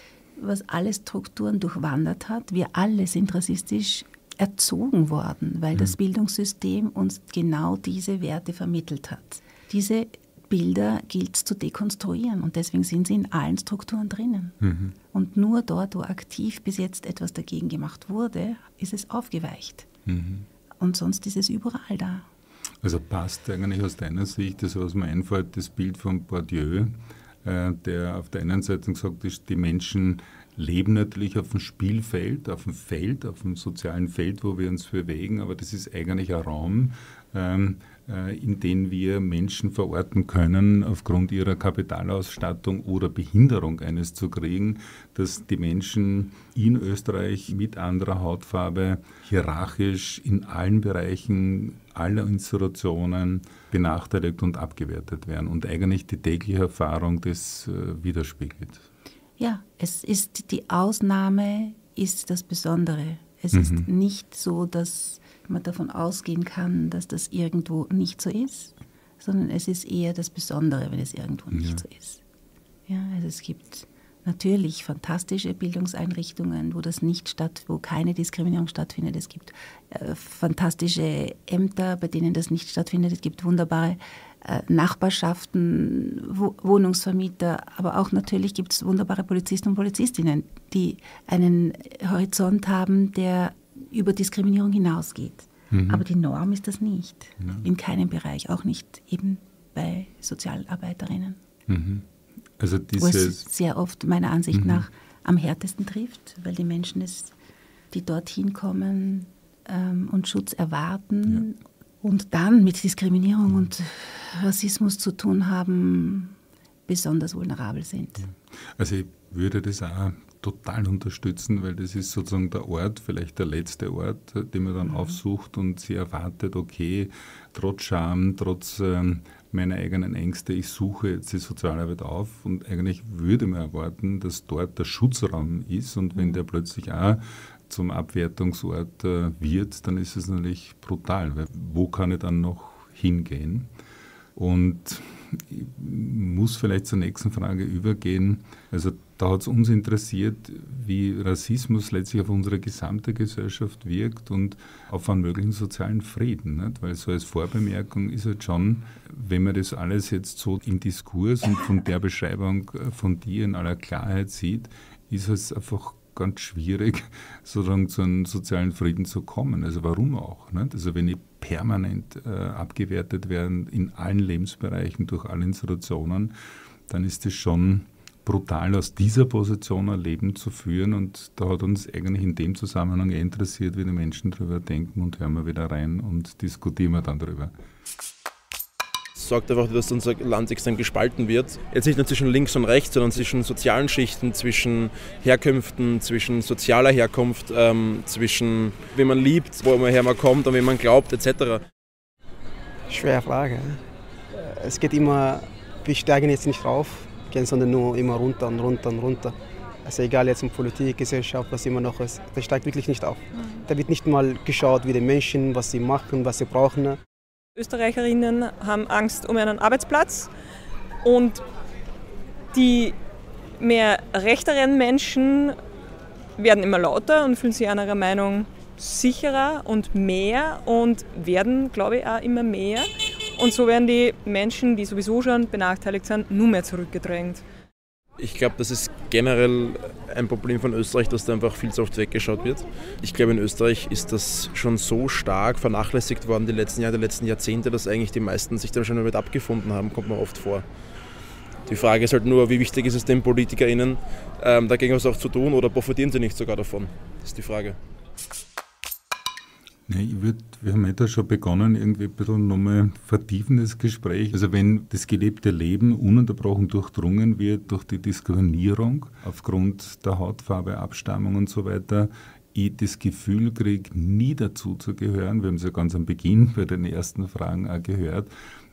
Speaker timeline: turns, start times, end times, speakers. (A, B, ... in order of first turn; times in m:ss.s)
0:00.4-0:14.6 A
0:14.6-0:15.0 B
0:15.1-0:19.9 A
0:20.0-0:20.5 B
0:20.8-0:22.2 A
0:22.8-0:58.9 B
0:59.4-1:12.2 A
1:03.5-1:03.9 B
1:11.5-1:11.8 B
1:12.9-1:41.4 A
1:35.7-1:36.0 B
1:37.4-1:37.6 B
1:41.7-1:43.4 B
1:43.0-1:47.3 A
1:44.5-1:44.8 B
1:47.9-1:58.2 A
1:58.2-2:23.7 B
2:24.3-2:56.3 B
2:56.9-3:07.5 B
3:09.2-3:21.6 C
3:22.9-3:23.8 D
3:24.3-3:29.3 D
3:29.8-3:37.0 D
3:37.6-3:40.3 E
3:41.0-3:41.4 E
3:42.5-3:43.0 E
3:43.6-3:45.6 E
3:46.4-3:57.4 E
3:58.2-4:10.6 C
4:11.7-4:17.8 C
4:19.9-4:38.3 B